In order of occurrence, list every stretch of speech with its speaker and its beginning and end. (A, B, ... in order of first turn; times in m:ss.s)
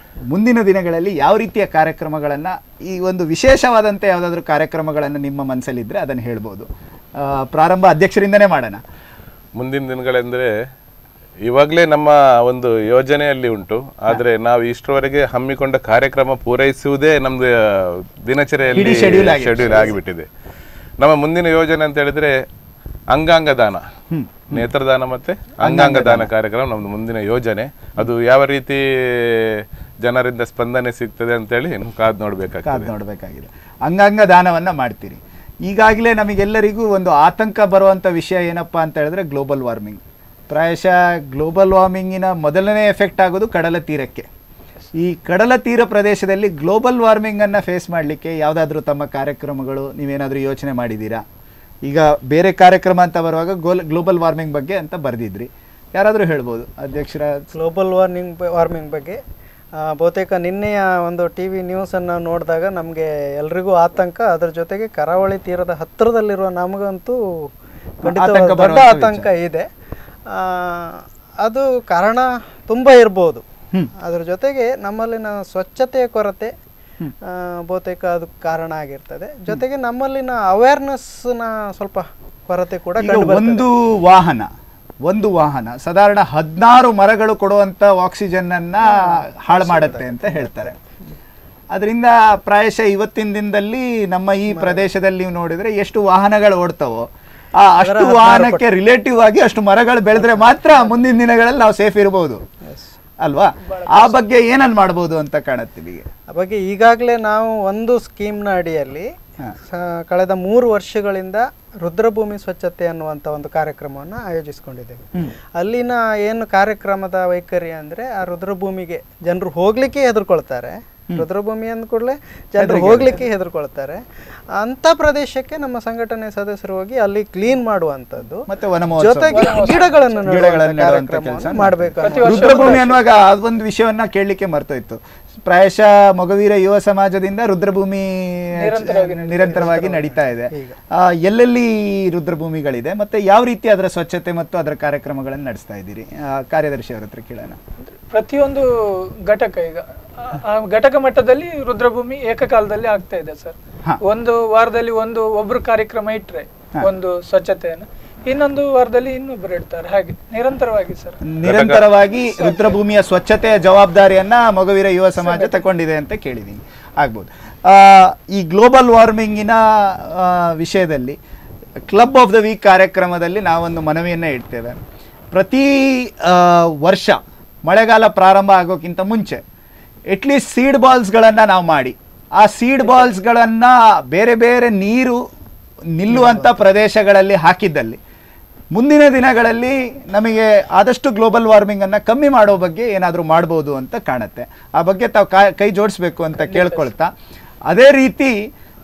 0:00.3-0:08.8 A
0:09.6-0:10.5 B
0:11.5-0:20.3 B
0:18.7-0:20.0 A
0:21.0-0:22.4 B
0:23.1-0:23.8 B
0:24.1-0:24.7 A
0:24.5-0:32.9 B
0:25.6-0:26.3 A
0:32.6-0:44.3 A
0:44.9-0:51.2 A
0:51.8-0:57.5 A
0:57.5-0:59.2 C
0:59.8-1:07.2 C
1:08.0-1:09.3 A
1:08.0-1:09.7 C
1:10.3-1:13.4 C
1:14.0-1:16.5 C
1:17.2-1:23.7 C
1:23.0-1:24.5 A
1:25.1-1:30.8 A
1:28.8-1:30.8 C
1:31.7-1:42.4 A
1:34.5-1:34.8 C
1:37.8-1:38.6 C
1:40.2-1:41.0 C
1:43.2-1:46.1 A
1:43.6-1:44.2 D
1:46.3-1:55.0 C
1:55.6-2:04.0 C
2:02.6-2:03.2 A
2:04.5-2:13.0 C
2:08.5-2:27.6 A
2:09.3-2:10.5 D
2:12.0-2:12.9 D
2:18.6-2:20.0 D
2:19.4-2:20.8 C
2:27.9-2:41.2 D
2:41.2-2:51.2 A
2:41.4-2:41.9 B
2:42.3-2:42.8 D
2:45.2-2:45.6 D
2:51.9-2:54.8 A
2:55.3-2:59.4 A
3:00.1-3:05.2 A
3:06.0-3:08.0 A
3:08.7-3:17.1 A
3:16.5-3:16.8 D
3:17.7-3:18.5 A